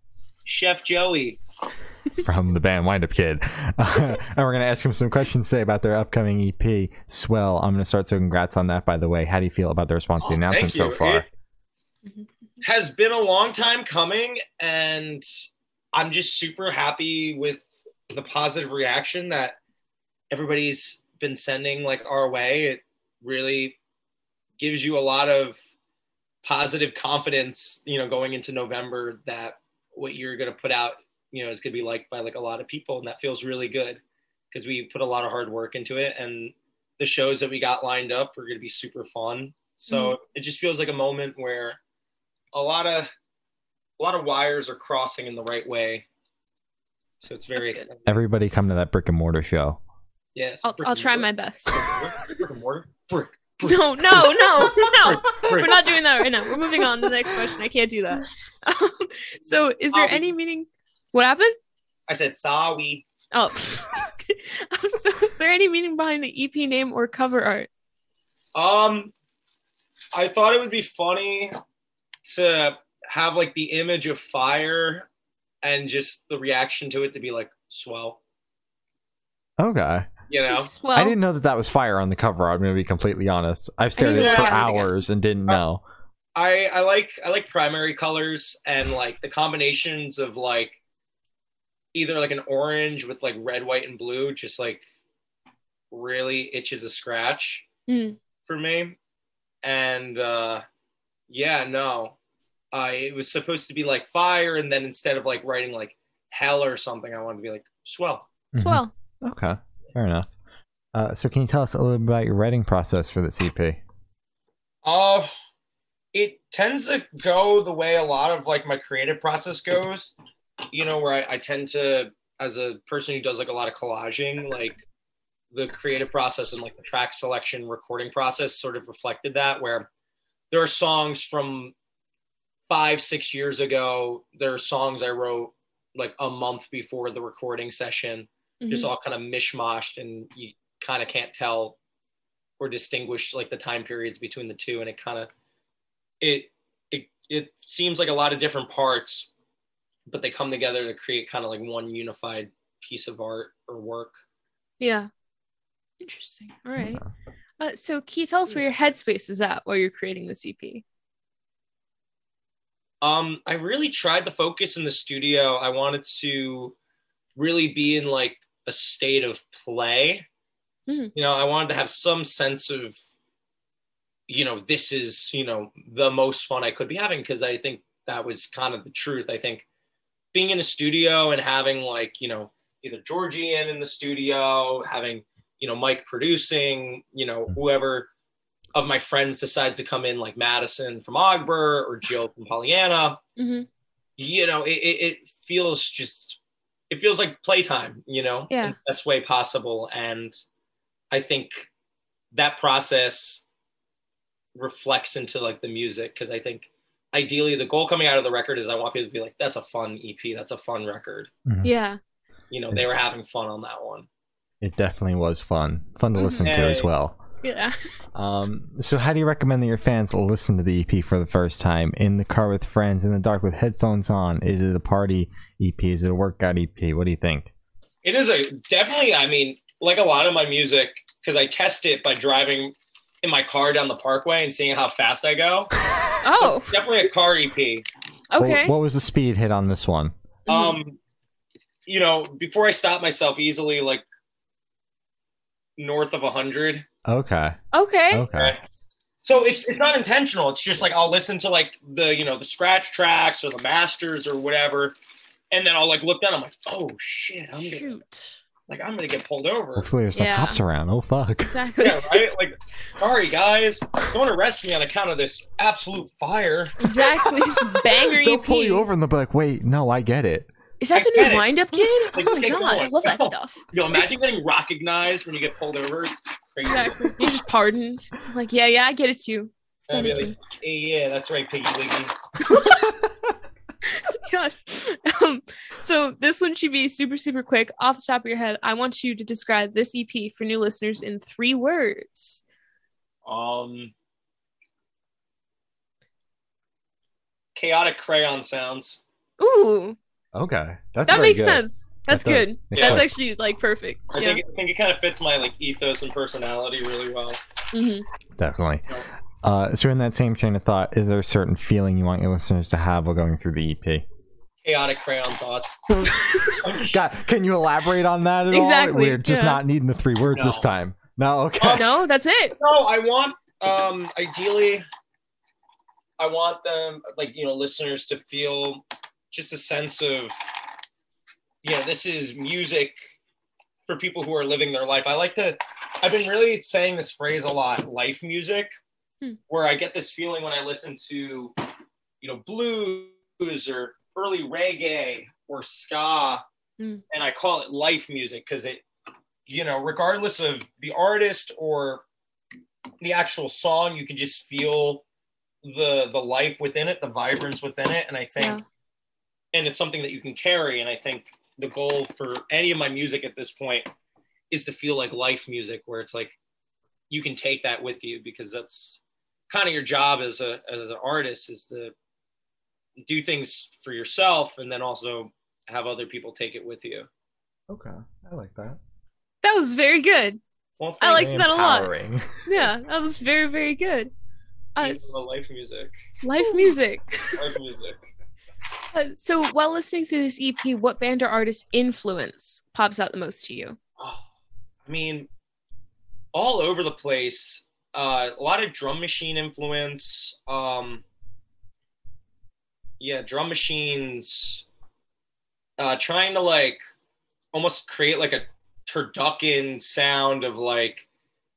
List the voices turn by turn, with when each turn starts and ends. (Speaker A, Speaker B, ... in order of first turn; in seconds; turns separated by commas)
Speaker A: 0.5-1.4, Speaker B: 2.2-11.2, Speaker A: 10.2-11.2, Speaker A: 12.6-15.2, Speaker A: 15.9-19.6, Speaker A: 20.3-23.8, Speaker A: 24.6-25.6, Speaker A: 26.4-34.0, Speaker A: 34.5-41.8, Speaker C: 39.9-40.2, Speaker A: 42.5-43.1, Speaker A: 44.0-46.0, Speaker A: 47.2-48.2, Speaker C: 47.5-47.9, Speaker B: 48.0-49.8, Speaker A: 50.4-55.8, Speaker C: 50.6-51.8, Speaker C: 53.6-61.5, Speaker A: 59.9-60.3, Speaker A: 62.1-63.0, Speaker C: 63.3-67.7, Speaker A: 68.5-69.1, Speaker A: 70.1-71.5, Speaker A: 72.2-75.1, Speaker A: 75.6-78.2, Speaker B: 79.6-80.1, Speaker A: 80.3-80.7, Speaker C: 80.4-81.2, Speaker B: 80.9-85.8, Speaker C: 84.0-84.9, Speaker A: 84.2-84.7, Speaker A: 86.3-90.8, Speaker A: 91.9-94.8, Speaker A: 95.9-97.7, Speaker C: 97.9-98.2, Speaker A: 98.4-99.0, Speaker A: 99.6-100.6, Speaker A: 101.3-102.2, Speaker A: 102.7-108.3, Speaker B: 108.5-110.3, Speaker C: 108.5-108.9, Speaker B: 110.9-113.8, Speaker A: 114.8-115.3, Speaker A: 116.1-120.1, Speaker A: 120.7-124.8, Speaker A: 125.5-129.9, Speaker A: 130.5-131.7, Speaker A: 132.7-141.8, Speaker C: 138.6-138.9, Speaker A: 142.6-145.3, Speaker A: 146.2-149.3, Speaker A: 150.1-154.1, Speaker C: 154.8-155.1, Speaker C: 156.0-157.0, Speaker B: 156.8-157.1, Speaker C: 157.6-160.8, Speaker A: 163.0-166.8, Speaker A: 167.3-170.2, Speaker A: 171.1-173.0, Speaker A: 174.3-179.6, Speaker A: 180.3-188.1, Speaker A: 188.7-193.2, Speaker C: 193.4-193.7, Speaker A: 194.2-200.3, Speaker A: 201.1-201.7, Speaker A: 202.3-203.4, Speaker A: 204.5-211.3, Speaker B: 211.4-211.7, Speaker C: 211.6-212.0, Speaker A: 212.5-214.1, Speaker B: 214.6-217.2, Speaker C: 216.2-216.5, Speaker A: 216.4-216.9, Speaker C: 217.4-217.8, Speaker B: 218.1-227.5, Speaker A: 228.0-235.7, Speaker C: 236.2-236.8, Speaker A: 236.4-237.8, Speaker C: 238.3-238.7, Speaker B: 238.3-240.1, Speaker C: 240.5-240.8, Speaker A: 240.5-241.0, Speaker A: 241.9-244.0, Speaker A: 245.8-246.8, Speaker B: 247.1-247.6, Speaker C: 247.7-248.3, Speaker B: 248.1-248.6, Speaker A: 248.3-248.6, Speaker A: 249.2-254.9, Speaker A: 255.5-257.9, Speaker C: 257.6-258.4, Speaker A: 258.7-259.9, Speaker B: 259.8-261.6, Speaker C: 260.1-260.6, Speaker C: 261.4-262.2, Speaker A: 261.8-266.8, Speaker C: 266.8-268.9, Speaker B: 267.5-270.5, Speaker C: 270.8-273.6, Speaker A: 270.9-277.2, Speaker C: 276.6-280.4, Speaker A: 279.9-282.1, Speaker C: 282.4-282.9, Speaker C: 283.8-292.4, Speaker A: 293.2-293.9, Speaker A: 297.6-299.0, Speaker C: 299.4-300.0, Speaker B: 300.3-303.1, Speaker C: 301.1-304.4, Speaker A: 302.7-303.0, Speaker A: 304.1-307.4, Speaker C: 307.7-308.1, Speaker B: 308.4-308.9, Speaker B: 309.4-314.1, Speaker A: 314.6-315.8, Speaker C: 316.1-316.6, Speaker A: 316.6-317.0, Speaker B: 316.9-321.8, Speaker C: 318.5-319.6, Speaker A: 320.3-320.6, Speaker A: 321.6-321.8, Speaker C: 321.8-322.6, Speaker A: 322.6-324.8, Speaker A: 326.2-330.3, Speaker A: 331.6-332.9, Speaker A: 333.9-338.7, Speaker A: 339.5-341.6, Speaker A: 342.2-346.4, Speaker A: 347.1-348.8, Speaker A: 349.5-352.0, Speaker A: 353.0-355.0, Speaker A: 355.6-358.6, Speaker A: 359.5-363.9, Speaker A: 364.5-366.3, Speaker A: 367.1-371.9, Speaker A: 373.0-377.1, Speaker B: 377.7-378.8, Speaker C: 379.4-380.4, Speaker A: 380.8-381.5, Speaker C: 381.0-381.9, Speaker B: 381.1-382.5, Speaker C: 382.4-384.1, Speaker C: 384.8-385.2, Speaker A: 384.8-385.9, Speaker C: 386.2-387.4, Speaker A: 387.4-388.0, Speaker C: 388.9-393.8, Speaker A: 394.0-394.3, Speaker A: 394.8-395.3, Speaker A: 396.3-401.0, Speaker A: 403.0-404.6, Speaker A: 405.8-406.8, Speaker A: 407.5-411.1